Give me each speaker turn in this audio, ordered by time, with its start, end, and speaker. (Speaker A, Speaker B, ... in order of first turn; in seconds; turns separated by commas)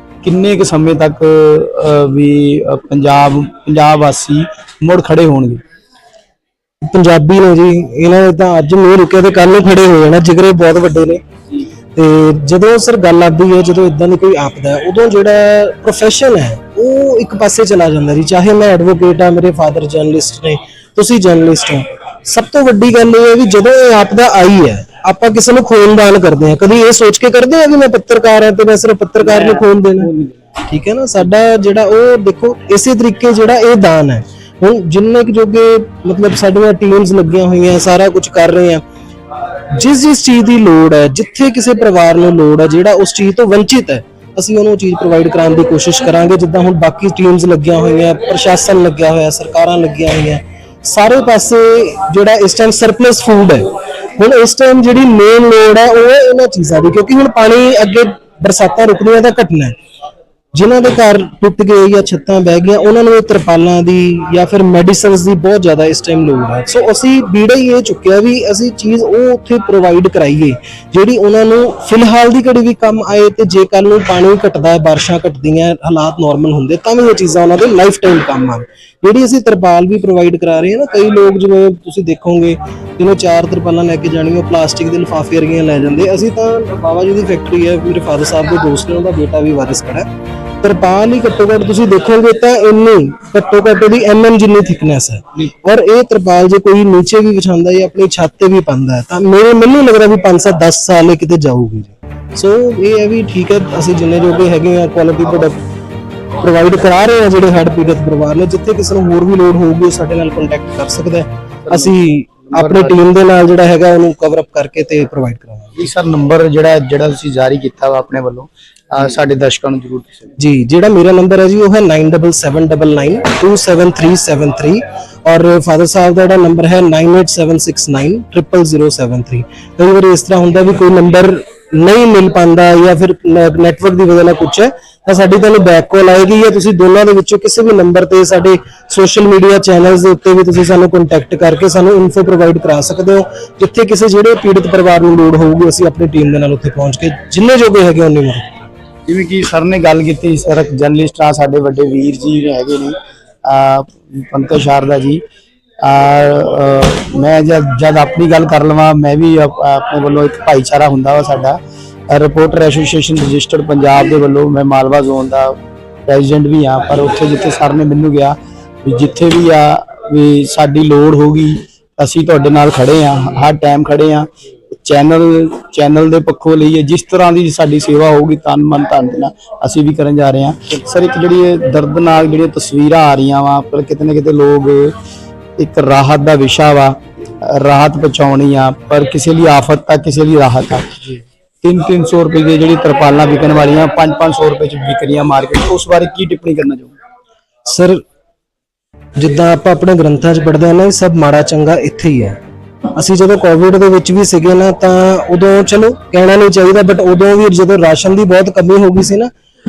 Speaker A: 0.2-5.6, Speaker B: 6.8-11.2, Speaker B: 11.9-30.1, Speaker A: 29.3-30.4, Speaker B: 30.7-38.8, Speaker B: 39.7-59.8, Speaker B: 60.5-90.1, Speaker B: 90.6-105.6, Speaker B: 106.4-115.9, Speaker A: 111.7-111.9, Speaker A: 112.5-113.0, Speaker A: 115.8-120.3, Speaker B: 120.4-148.6, Speaker A: 149.1-155.2, Speaker A: 155.8-161.6, Speaker A: 162.1-165.5, Speaker A: 166.1-174.3, Speaker A: 174.8-184.9, Speaker A: 185.6-190.9, Speaker A: 191.6-196.9, Speaker B: 197.7-198.0, Speaker B: 199.2-202.4, Speaker B: 202.9-209.3